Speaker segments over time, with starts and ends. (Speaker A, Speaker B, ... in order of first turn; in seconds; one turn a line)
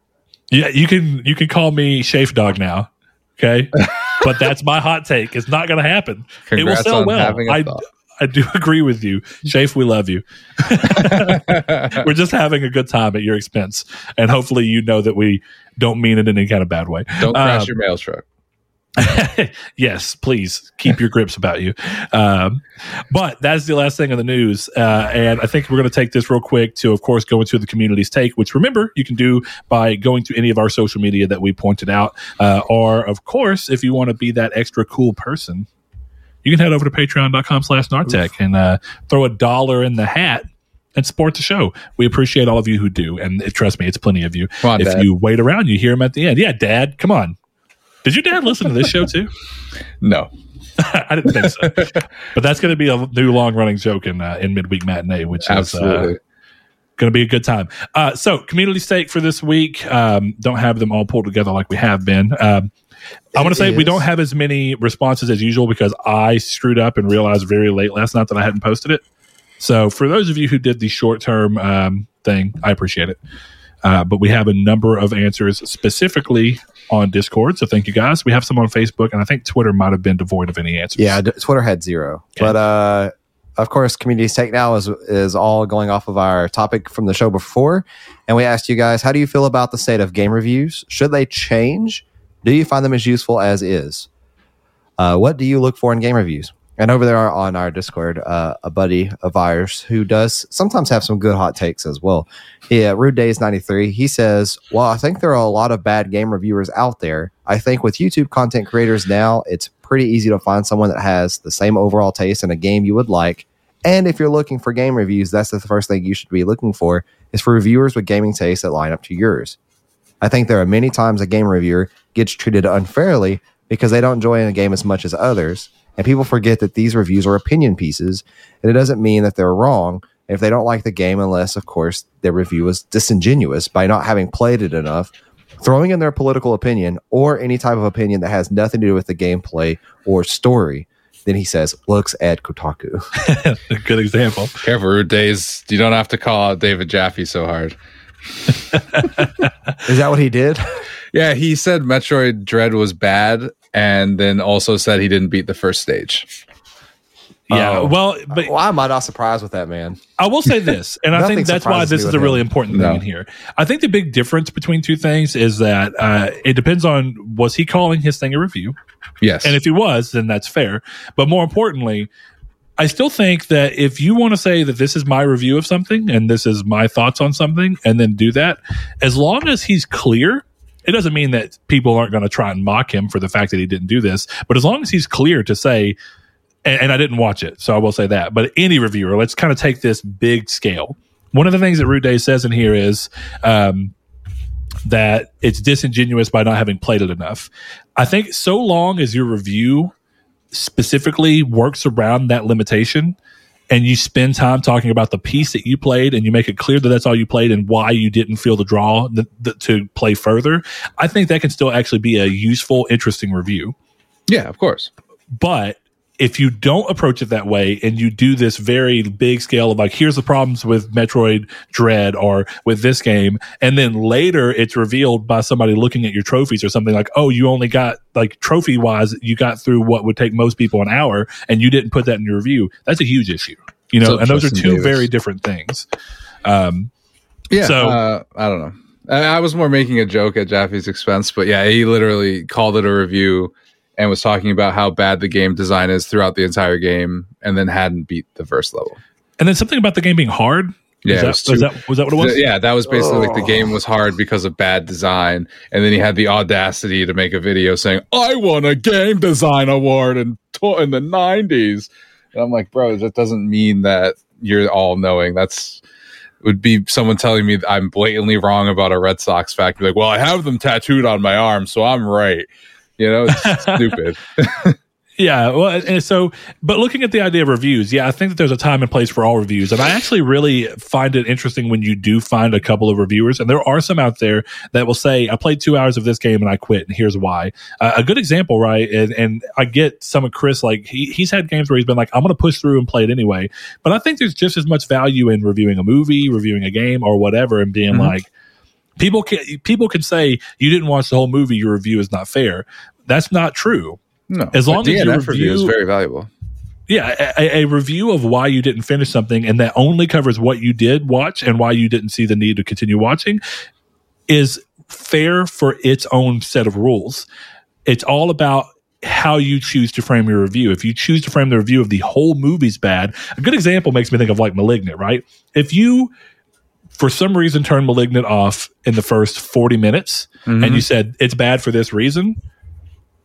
Speaker A: 0.5-17.7
Speaker B: 3.8-4.1
Speaker B: 6.5-7.8
Speaker B: 10.9-12.1
Speaker B: 17.2-18.2
Speaker A: 19.0-35.7
Speaker A: 36.4-40.4
Speaker A: 41.0-47.4
Speaker B: 44.6-45.0
Speaker A: 48.0-49.3
Speaker B: 50.0-50.3
Speaker A: 50.8-56.1
Speaker B: 51.3-51.9
Speaker B: 55.4-56.2
Speaker A: 57.0-62.7
Speaker C: 63.3-64.0
Speaker A: 63.3-69.0
Speaker A: 69.6-73.2
Speaker A: 73.8-81.2
Speaker C: 81.0-94.1
Speaker C: 95.0-119.6
Speaker C: 120.2-143.0
Speaker A: 143.2-144.6
Speaker B: 144.6-147.8
Speaker A: 148.7-149.5
Speaker C: 149.8-150.8
Speaker B: 151.1-156.3
Speaker A: 157.5-158.5
Speaker C: 157.5-160.0
Speaker A: 160.2-168.8
Speaker C: 161.1-162.4
Speaker B: 162.7-163.0
Speaker B: 169.2-169.6
Speaker A: 169.4-172.1
Speaker A: 172.8-185.9
Speaker A: 186.6-193.9
Speaker A: 194.8-199.9
Speaker A: 200.5-203.2
Speaker A: 203.7-213.7
Speaker B: 214.3-214.9
Speaker A: 215.4-235.9
Speaker B: 234.0-235.1
Speaker A: 236.4-236.9
Speaker B: 237.5-249.0
Speaker A: 237.6-238.0
Speaker A: 249.4-252.4
Speaker B: 251.0-265.8
Speaker B: 266.4-274.8
Speaker A: 273.3-273.9
Speaker A: 275.2-298.3
Speaker A: 299.0-304.0
Speaker B: 304.3-306.3
Speaker A: 304.5-305.7
Speaker A: 306.9-313.4
Speaker A: 314.3-317.2
Speaker A: 317.9-326.1
Speaker A: 326.9-332.4
Speaker B: 330.4-330.8